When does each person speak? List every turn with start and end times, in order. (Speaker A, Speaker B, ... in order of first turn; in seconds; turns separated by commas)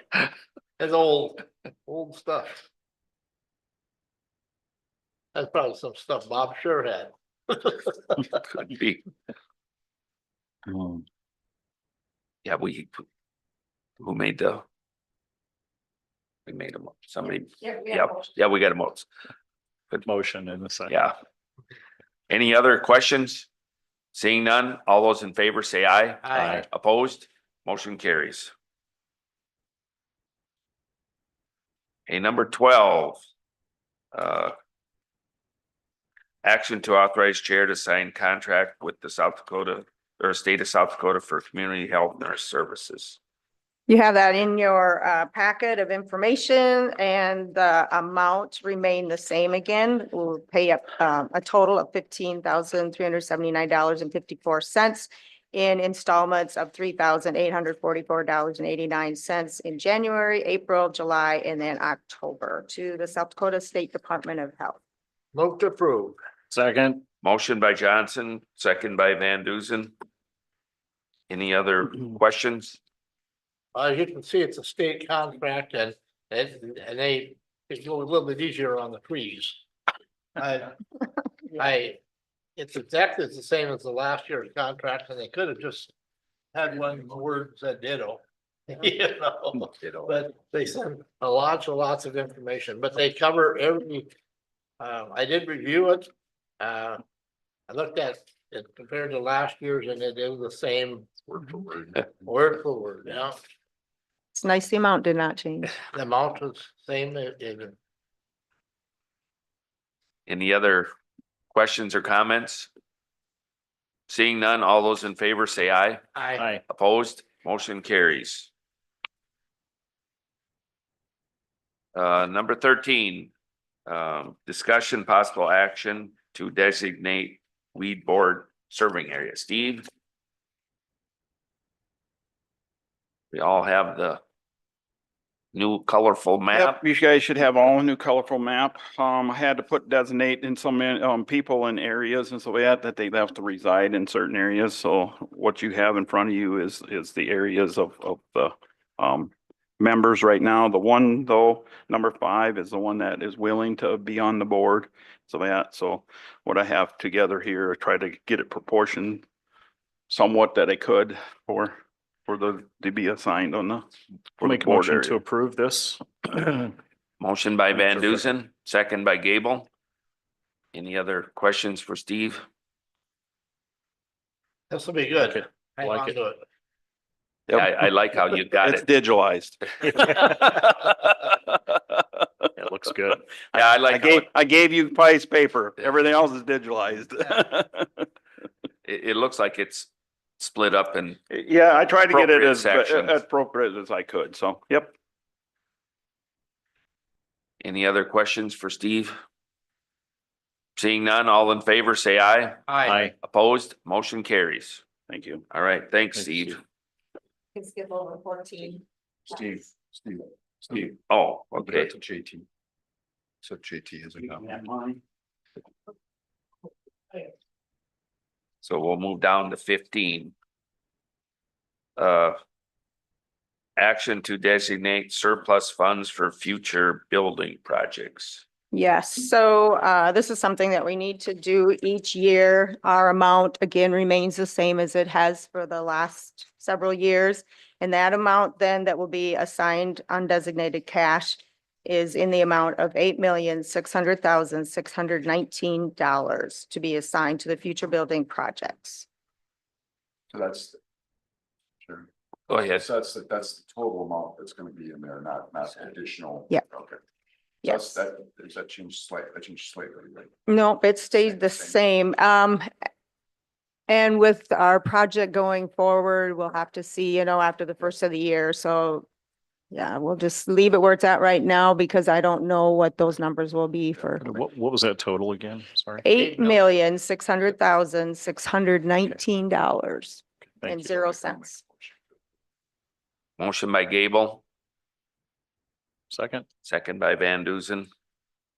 Speaker A: 0.8-2.6, Speaker A: 5.3-8.4, Speaker B: 8.5-9.0, Speaker B: 12.4-13.0, Speaker B: 14.0-14.6, Speaker B: 16.5-19.1, Speaker C: 17.6-18.2, Speaker D: 20.0-20.9, Speaker B: 20.9-21.1, Speaker B: 22.3-23.5, Speaker B: 24.1-28.5, Speaker A: 26.2-26.6, Speaker D: 26.4-26.6, Speaker B: 32.1-33.2, Speaker B: 34.1-34.5, Speaker B: 36.4-43.2, Speaker C: 43.9-64.8, Speaker A: 65.3-66.2, Speaker D: 66.5-67.0, Speaker B: 67.2-69.9, Speaker B: 71.3-72.8, Speaker A: 73.7-79.6, Speaker A: 80.4-80.8, Speaker A: 81.5-82.0, Speaker A: 82.5-85.9, Speaker A: 86.5-94.1, Speaker E: 89.8-90.2, Speaker A: 94.8-96.1, Speaker A: 96.6-97.0, Speaker A: 97.7-103.4, Speaker E: 101.7-102.0, Speaker C: 104.3-105.8, Speaker A: 105.8-107.8, Speaker B: 110.3-110.9, Speaker B: 111.5-112.7, Speaker B: 114.1-116.0, Speaker A: 116.1-116.5, Speaker B: 116.7-118.5, Speaker B: 121.9-123.3, Speaker B: 123.9-129.8, Speaker B: 133.3-134.2, Speaker B: 135.5-136.8, Speaker F: 136.5-159.2, Speaker F: 160.1-163.9, Speaker F: 164.4-165.2, Speaker D: 164.4-166.7, Speaker B: 167.2-169.7, Speaker B: 170.7-172.4, Speaker A: 174.7-176.4, Speaker D: 175.1-176.1, Speaker B: 177.5-178.8, Speaker F: 178.5-182.5, Speaker D: 182.6-183.4, Speaker B: 183.5-184.2, Speaker F: 183.8-188.1, Speaker B: 188.8-191.2, Speaker F: 191.3-194.9, Speaker B: 192.1-193.2, Speaker B: 197.6-199.2, Speaker B: 200.8-204.8, Speaker A: 202.7-203.1, Speaker D: 202.9-203.1, Speaker F: 205.1-205.4, Speaker B: 205.5-206.6, Speaker D: 206.1-206.6, Speaker C: 207.5-208.8, Speaker E: 209.3-211.0, Speaker B: 211.1-211.9, Speaker E: 211.6-212.4, Speaker E: 213.4-214.7, Speaker F: 214.7-214.9, Speaker B: 218.6-220.3, Speaker B: 222.0-222.4, Speaker B: 223.8-228.4, Speaker C: 228.7-249.1, Speaker E: 250.3-250.8, Speaker E: 251.8-252.1, Speaker B: 252.5-252.9, Speaker E: 252.7-257.0, Speaker C: 257.6-258.0, Speaker E: 257.6-260.3, Speaker C: 260.5-262.7, Speaker E: 261.2-261.8, Speaker C: 263.9-269.1, Speaker C: 269.7-274.4, Speaker D: 274.2-276.1, Speaker C: 276.0-281.6, Speaker A: 276.1-276.7, Speaker E: 280.7-282.2, Speaker B: 283.4-284.4, Speaker D: 286.1-286.4, Speaker B: 286.6-287.9